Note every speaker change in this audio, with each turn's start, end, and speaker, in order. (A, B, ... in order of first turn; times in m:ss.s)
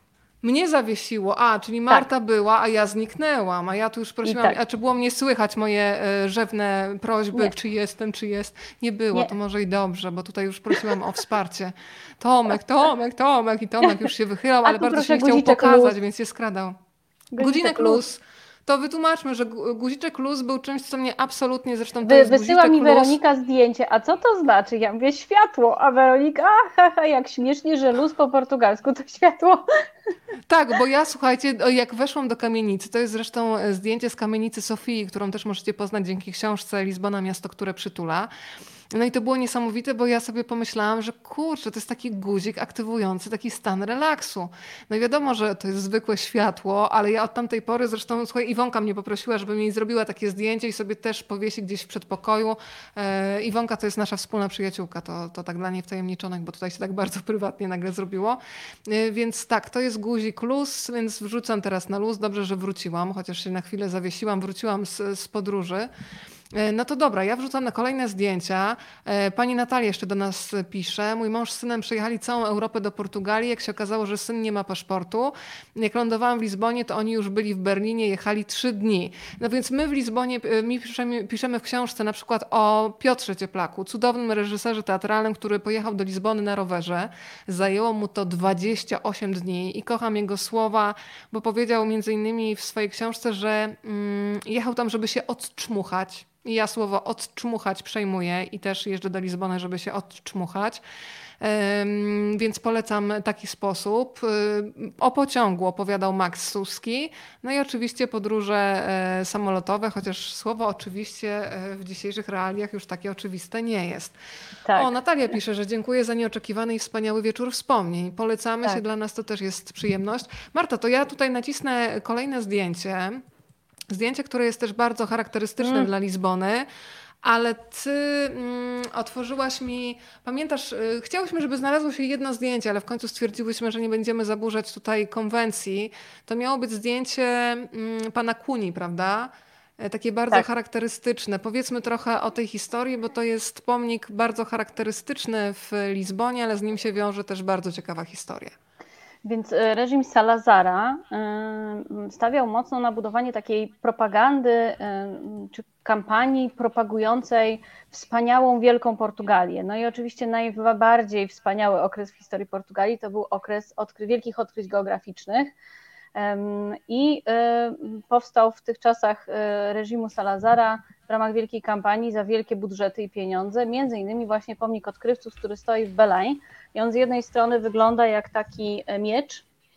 0:00.4-0:16.8 A
0:04.2-0:04.6 B
0:13.8-0:14.1 B
0:14.6-0:16.0 B
0:17.3-0:18.0 B
0:17.4-0:23.2 A
0:22.0-0:29.8 B
0:30.5-0:38.3 A
0:38.9-1:05.9 A
1:06.5-1:40.8 A
1:41.4-1:54.1 A
1:54.6-1:54.9 B
1:54.7-2:03.2 A
2:03.9-2:06.7 A
2:05.6-2:05.9 B
2:07.2-2:28.5 A
2:29.2-2:45.5 B
2:46.2-2:59.5 B